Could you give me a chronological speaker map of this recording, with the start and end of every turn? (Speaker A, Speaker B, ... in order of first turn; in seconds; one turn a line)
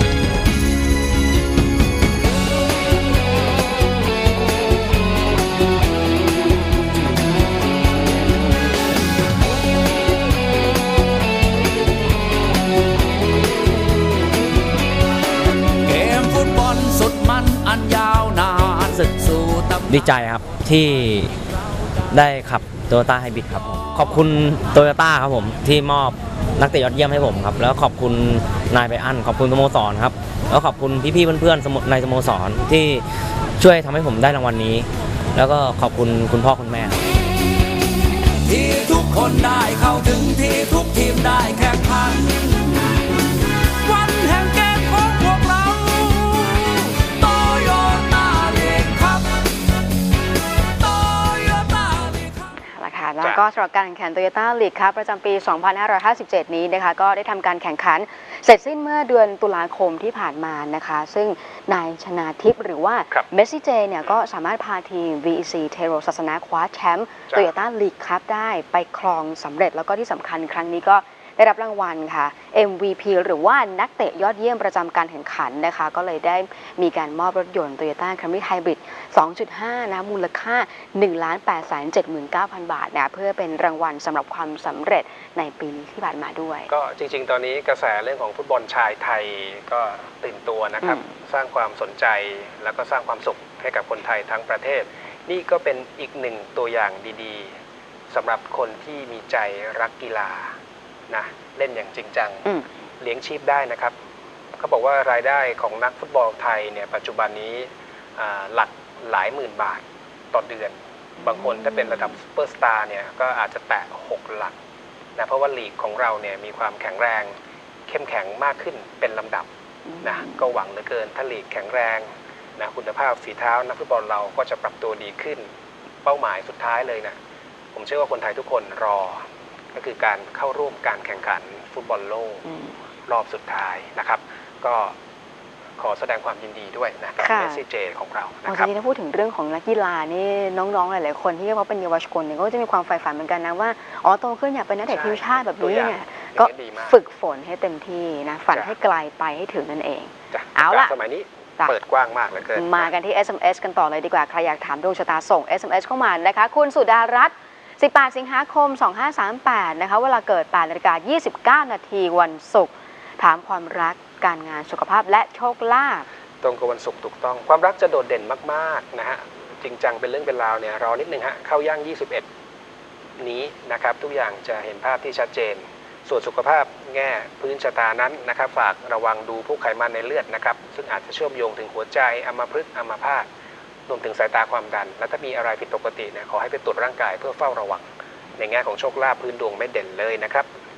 Speaker A: 15.8-20.6
Speaker B: 19.9-21.4
Speaker B: 22.1-33.1
Speaker B: 33.6-37.0
Speaker A: 38.5-42.8
Speaker A: 43.8-49.4
Speaker A: 50.8-52.4
Speaker C: 52.6-86.7
Speaker D: 86.7-97.5
Speaker D: 98.1-100.5
Speaker D: 101.1-103.9
Speaker D: 104.6-114.5
Speaker D: 115.2-117.3
Speaker D: 117.9-119.5
Speaker D: 120.0-125.5
Speaker D: 126.0-127.2
Speaker D: 127.7-129.2
Speaker D: 129.7-132.4
Speaker C: 132.5-132.7
Speaker D: 133.1-134.9
Speaker D: 135.8-138.7
Speaker C: 137.2-137.6
Speaker C: 138.5-150.9
Speaker D: 144.9-147.0
Speaker D: 150.3-152.9
Speaker C: 152.6-166.1
Speaker D: 166.4-172.3
Speaker D: 173.2-183.3
Speaker D: 183.9-187.8
Speaker D: 188.4-190.5